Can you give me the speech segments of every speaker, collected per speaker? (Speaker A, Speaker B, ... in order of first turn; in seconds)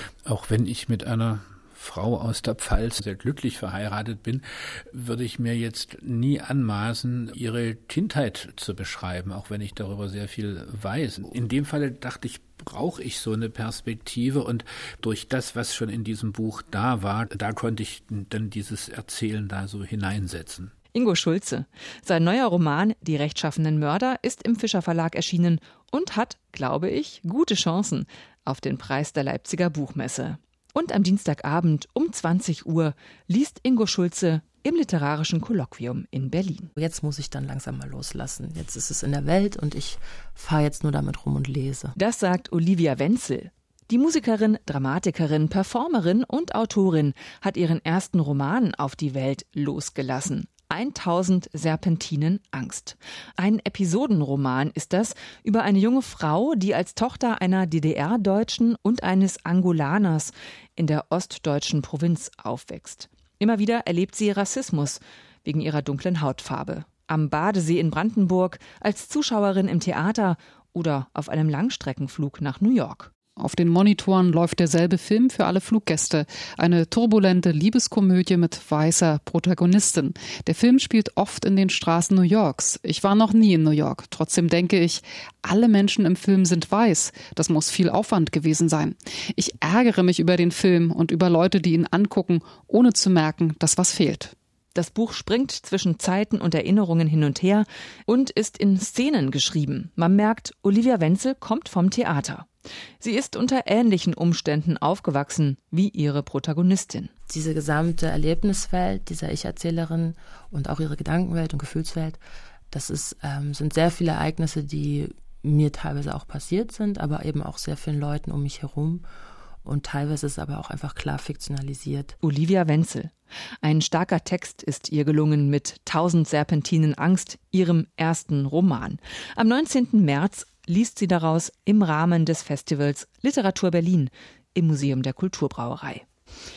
Speaker A: 0.3-20.7
Speaker B: 20.9-36.7, 41.9-73.1, 94.8-102.5, 103.0-107.1, 122.2-123.1, 123.6-136.0
Speaker C: 36.8-41.9, 107.3-119.0, 119.6-122.1
Speaker D: 73.4-94.3